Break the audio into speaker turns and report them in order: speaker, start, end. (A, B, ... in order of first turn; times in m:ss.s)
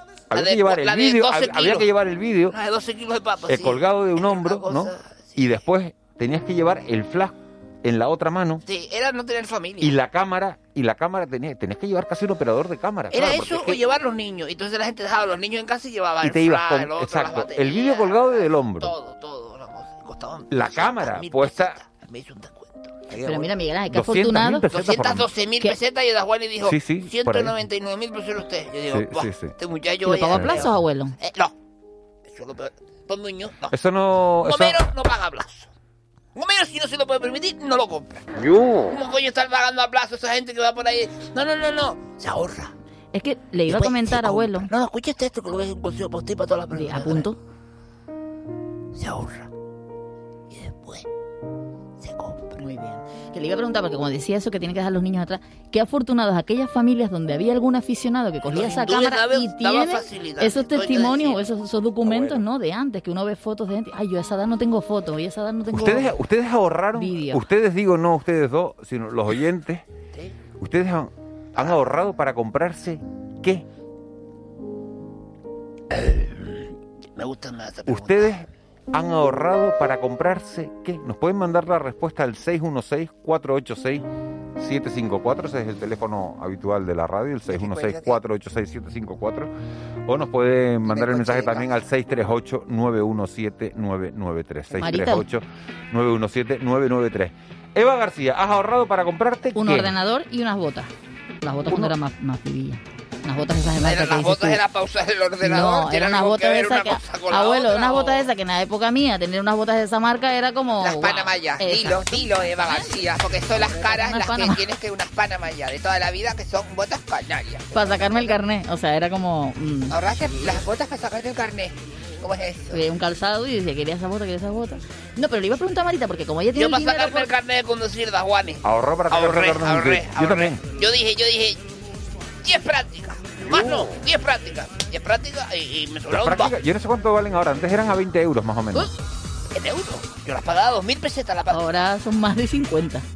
0:00.3-0:02.5 A
0:00.3-0:01.9 B
0:02.5-0:05.6 B
0:03.5-0:08.6 A
0:08.6-0:10.0 B
0:09.8-0:13.8 A
0:13.1-0:23.1 B
0:16.2-0:18.9 A
0:20.5-0:21.8 A
0:23.1-0:25.3 A
0:23.2-0:24.6 C
0:24.7-0:31.5 B
0:26.6-0:27.5 A
0:28.9-0:29.5 A
0:30.0-0:31.1 C
0:32.3-0:33.7 B
0:33.7-0:34.8 A
0:34.4-0:35.7 B
0:36.3-0:42.7 B
0:43.1-0:44.7 C
0:43.7-0:47.3 B
0:46.7-0:47.4 C
0:48.9-0:49.5 B
0:50.5-0:51.0 B
0:52.0-0:52.6 B
0:52.6-1:06.2 C
0:58.5-1:01.4 B
1:02.0-1:02.4 A
1:05.7-1:09.8 A
1:06.9-1:07.4 C
1:10.6-1:13.6 A
1:15.9-1:18.4 B
1:17.9-1:24.0 A
1:24.6-1:29.5 A
1:27.5-1:28.2 B
1:30.0-1:39.9 A
1:30.9-1:31.8 B
1:34.7-1:35.2 C
1:39.5-1:40.9 C
1:41.4-1:44.6 C
1:43.8-1:48.3 B
1:45.4-1:54.6 C
1:50.8-1:57.7 B
1:57.7-1:59.9 C
1:59.9-2:02.8 B
2:02.7-2:07.3 C
2:06.5-2:11.6 B
2:08.6-2:10.6 A
2:12.4-2:16.5 B
2:13.5-2:13.9 A
2:16.1-2:18.9 A
2:19.5-2:21.6 B
2:21.5-2:23.0 C